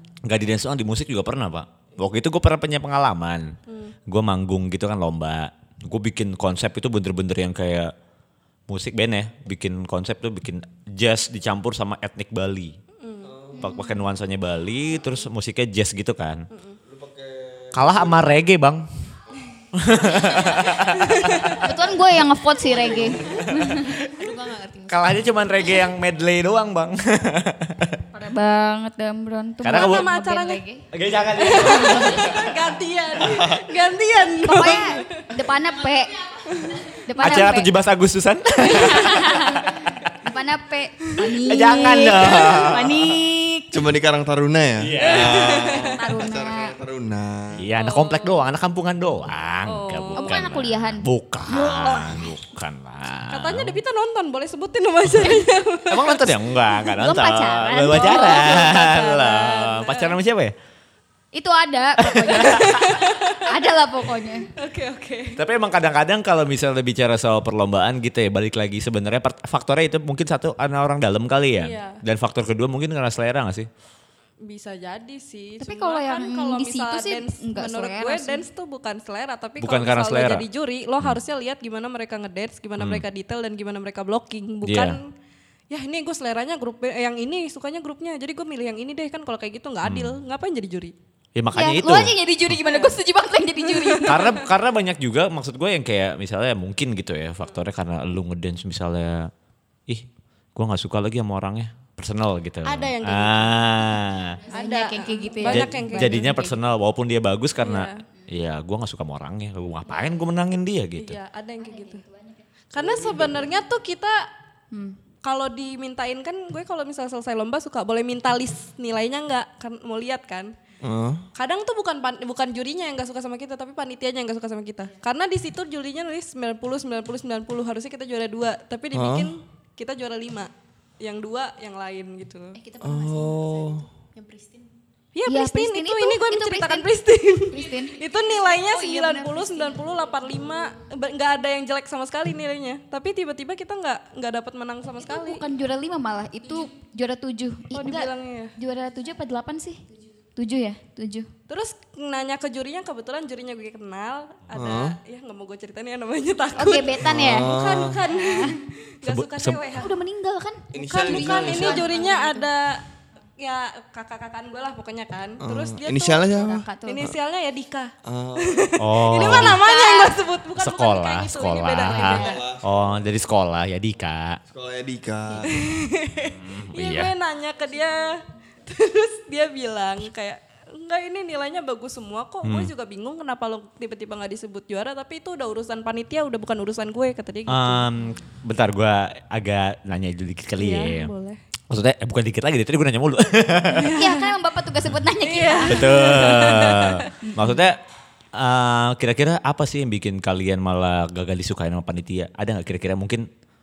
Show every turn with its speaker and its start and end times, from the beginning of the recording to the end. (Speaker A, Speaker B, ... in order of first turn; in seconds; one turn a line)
Speaker A: 0.2-3.5
Speaker B: 3.7-3.9
Speaker A: 4.1-7.9
Speaker A: 8.7-12.8
Speaker B: 13.0-13.3
Speaker C: 13.2-13.8
Speaker D: 13.6-14.0
Speaker A: 13.6-16.4
Speaker B: 16.5-16.8
Speaker C: 16.8-18.3
Speaker A: 17.7-18.9
Speaker A: 19.7-21.6
Speaker B: 20.9-21.6
Speaker D: 21.6-23.9
Speaker C: 22.6-23.4
Speaker A: 23.3-24.3
Speaker E: 23.9-25.3
Speaker A: 24.9-28.0
Speaker D: 28.1-30.9
Speaker A: 29.6-30.1
Speaker B: 29.7-30.6
Speaker A: 30.9-32.5
Speaker B: 31.4-35.2
Speaker D: 31.8-32.0
Speaker C: 33.2-33.6
Speaker D: 34.4-37.7
Speaker E: 35.6-36.5
Speaker B: 36.5-36.8
Speaker A: 37.2-40.1
Speaker D: 38.6-43.3
Speaker A: 41.4-43.2
Speaker E: 41.9-43.7
Speaker C: 43.7-47.7
Speaker A: 44.8-45.8
Speaker B: 45.0-46.0
Speaker D: 45.8-46.8
Speaker A: 47.6-53.8
Speaker B: 47.8-48.3
Speaker B: 49.6-50.4
Speaker D: 50.1-51.0
Speaker B: 51.5-52.3
Speaker B: 53.3-56.4
Speaker A: 55.9-60.5
Speaker D: 57.0-58.7
Speaker B: 57.9-60.2
Speaker D: 61.3-62.9
Speaker A: 62.0-62.9
Speaker B: 62.5-63.5
Speaker D: 63.5-64.5
Speaker B: 64.5-65.4
Speaker A: 65.3-73.7
Speaker B: 71.6-72.0
Speaker B: 74.4-85.1
Speaker D: 75.6-78.5
Speaker A: 79.6-80.5
Speaker A: 82.8-83.0
Speaker A: 84.6-85.0
Speaker B: 85.7-90.9
Speaker A: 89.8-90.2
Speaker A: 91.3-92.1
Speaker D: 91.5-94.4
Speaker B: 92.7-93.0
Speaker B: 93.6-94.4
Speaker A: 94.0-99.3
Speaker A: 99.9-104.4
Speaker B: 102.6-103.8
Speaker D: 104.2-106.6
Speaker B: 104.5-106.4
Speaker E: 104.5-105.8
Speaker A: 105.5-111.2
Speaker B: 107.6-108.0
Speaker B: 111.0-112.0
Speaker D: 111.6-112.4
Speaker B: 112.7-114.3
Speaker C: 112.8-113.5
Speaker D: 114.7-115.0
Speaker B: 115.2-120.5
Speaker C: 120.8-121.2
Speaker B: 121.3-132.6
Speaker C: 128.9-129.3
Speaker E: 132.6-134.7
Speaker C: 132.8-133.8
Speaker B: 135.1-145.4
Speaker D: 135.3-136.9
Speaker D: 137.5-138.0
Speaker E: 138.0-140.3
Speaker D: 145.0-149.8
Speaker B: 147.7-148.6
Speaker D: 150.3-151.3
Speaker B: 151.5-159.9
Speaker C: 154.5-155.0
Speaker D: 156.6-157.5
Speaker C: 157.0-158.0
Speaker D: 158.0-158.6
Speaker A: 159.0-159.6
Speaker D: 159.8-162.5
Speaker C: 160.7-161.9
Speaker B: 160.9-162.8
Speaker B: 163.4-172.4
Speaker C: 165.4-166.7
Speaker D: 166.6-167.0
Speaker C: 168.0-168.8
Speaker A: 168.8-169.7
Speaker D: 169.6-169.9
Speaker E: 169.7-170.2
Speaker A: 170.6-174.4
Speaker E: 172.0-172.4
Speaker C: 172.0-172.9
Speaker C: 174.5-175.6
Speaker B: 175.4-187.9
Speaker A: 176.2-177.1
Speaker A: 182.4-182.7
Speaker A: 187.5-191.1
Speaker B: 190.6-191.4
Speaker A: 191.7-194.0
Speaker B: 193.7-194.3
Speaker D: 193.8-196.4
Speaker B: 195.2-197.1
Speaker A: 195.6-197.8
Speaker D: 197.2-197.6
Speaker A: 198.3-203.3